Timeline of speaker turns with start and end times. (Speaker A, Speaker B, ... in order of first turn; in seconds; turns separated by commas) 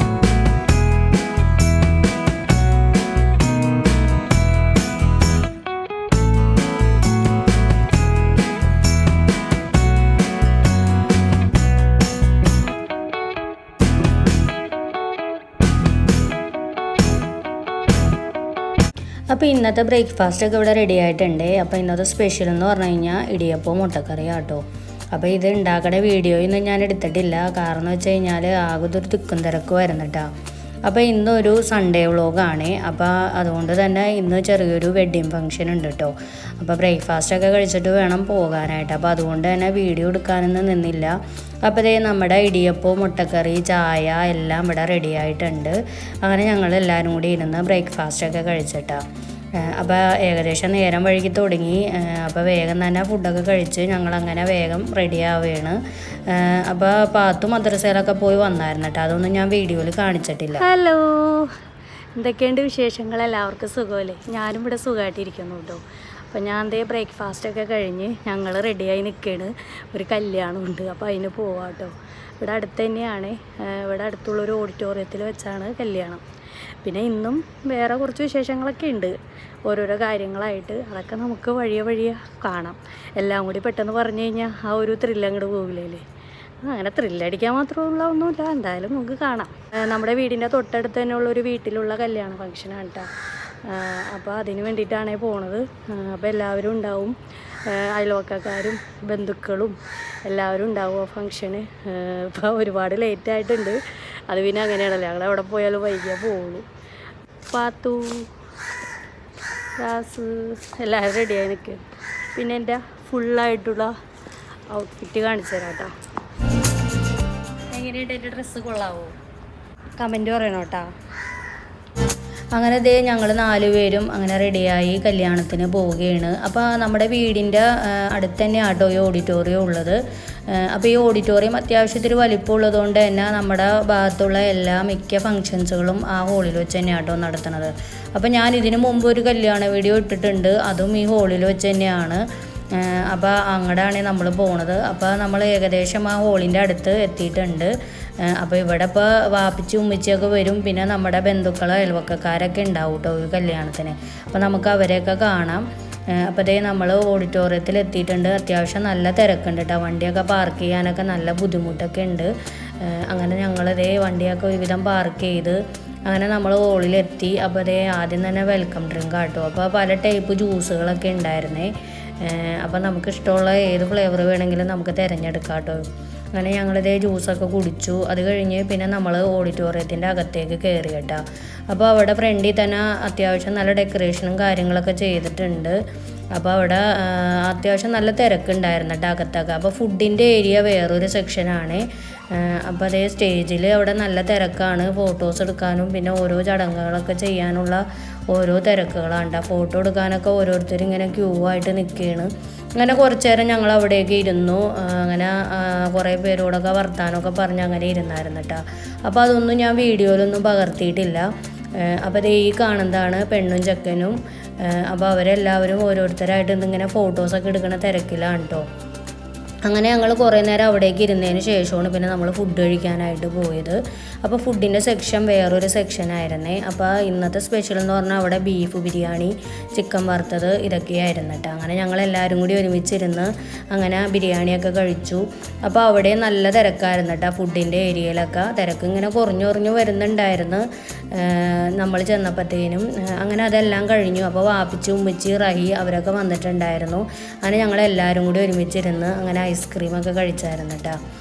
Speaker A: 19.3-30.3, Speaker A: 30.9-49.0, Speaker A: 49.6-60.7, Speaker B: 60.7-61.5, Speaker B: 62.2-76.2, Speaker B: 76.8-79.2, Speaker A: 78.2-78.9, Speaker B: 79.7-86.0, Speaker B: 86.7-87.5, Speaker A: 86.7-92.7, Speaker B: 88.4-93.1, Speaker B: 93.7-95.0, Speaker A: 94.2-97.1, Speaker B: 96.6-96.9, Speaker B: 97.7-98.0, Speaker A: 98.0-99.8, Speaker B: 98.7-99.7, Speaker B: 100.3-103.3, Speaker A: 100.5-101.0, Speaker A: 102.4-103.8, Speaker A: 104.3-106.6, Speaker A: 107.5-108.1, Speaker B: 109.8-111.8, Speaker B: 112.4-113.0, Speaker A: 112.4-113.9, Speaker A: 114.8-115.0, Speaker B: 114.8-115.9, Speaker A: 117.8-119.1, Speaker B: 117.8-118.3, Speaker B: 118.9-119.1, Speaker B: 120.0-120.9, Speaker A: 120.2-120.8, Speaker A: 122.5-130.0, Speaker A: 130.5-185.8, Speaker A: 186.3-218.7, Speaker A: 219.7-251.0